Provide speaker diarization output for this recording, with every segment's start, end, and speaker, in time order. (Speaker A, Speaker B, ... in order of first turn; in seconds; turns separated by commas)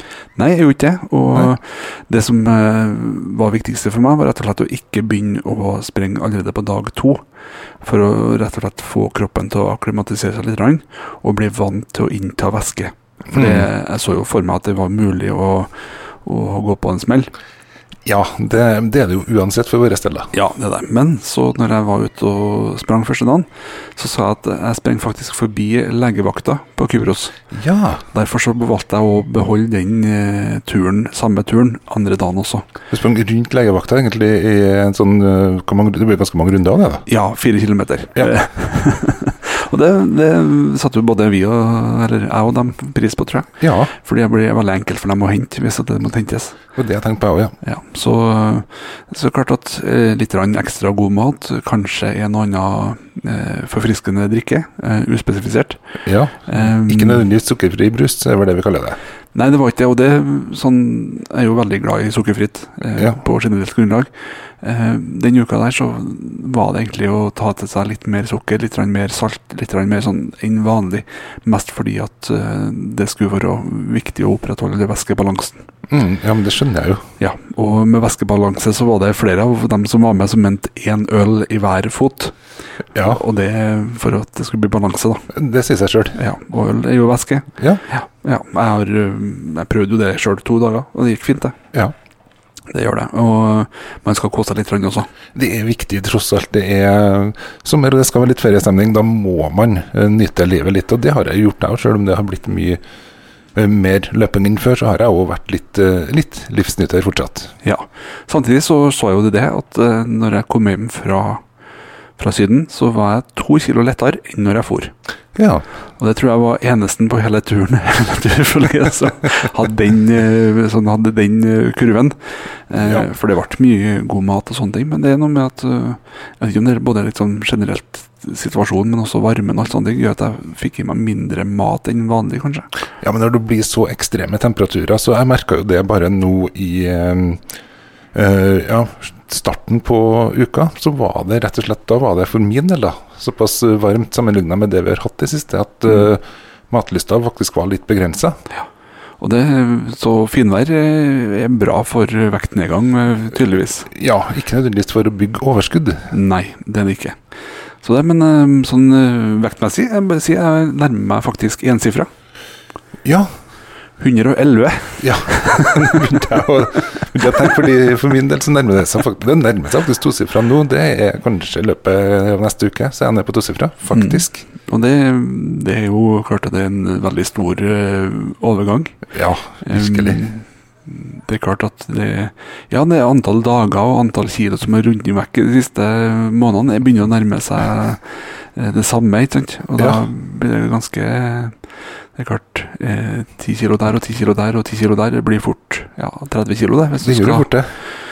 Speaker A: 0.3-7.2, Speaker A: 7.8-15.7, Speaker B: 13.3-13.7, Speaker A: 16.2-17.3, Speaker B: 18.0-20.3, Speaker A: 20.3-27.4, Speaker B: 27.5-28.0, Speaker A: 28.1-32.7, Speaker B: 32.9-37.0, Speaker A: 37.1-46.6, Speaker B: 43.6-43.9, Speaker B: 46.8-47.5, Speaker A: 47.6-55.8, Speaker B: 56.0-59.0, Speaker A: 56.5-57.2, Speaker A: 59.3-64.1, Speaker A: 64.6-75.6, Speaker B: 75.9-77.0, Speaker A: 77.2-82.3, Speaker B: 83.0-83.2, Speaker A: 83.0-85.3, Speaker B: 85.3-86.2, Speaker A: 86.2-91.5, Speaker B: 87.6-87.8, Speaker A: 92.7-95.1, Speaker B: 95.3-102.8, Speaker B: 103.5-107.5, Speaker A: 107.6-111.4, Speaker A: 112.2-114.9, Speaker B: 115.3-115.6, Speaker A: 116.0-122.2, Speaker A: 122.7-132.7, Speaker B: 122.7-123.1, Speaker B: 133.0-137.4, Speaker B: 138.1-148.4, Speaker A: 149.2-153.9, Speaker B: 153.9-156.1, Speaker A: 156.1-157.2, Speaker A: 157.8-162.1, Speaker A: 164.0-166.0, Speaker B: 165.0-174.4, Speaker A: 173.9-179.0, Speaker B: 179.1-180.2, Speaker A: 179.7-191.6, Speaker B: 189.8-190.0, Speaker A: 192.2-197.5, Speaker B: 197.0-197.7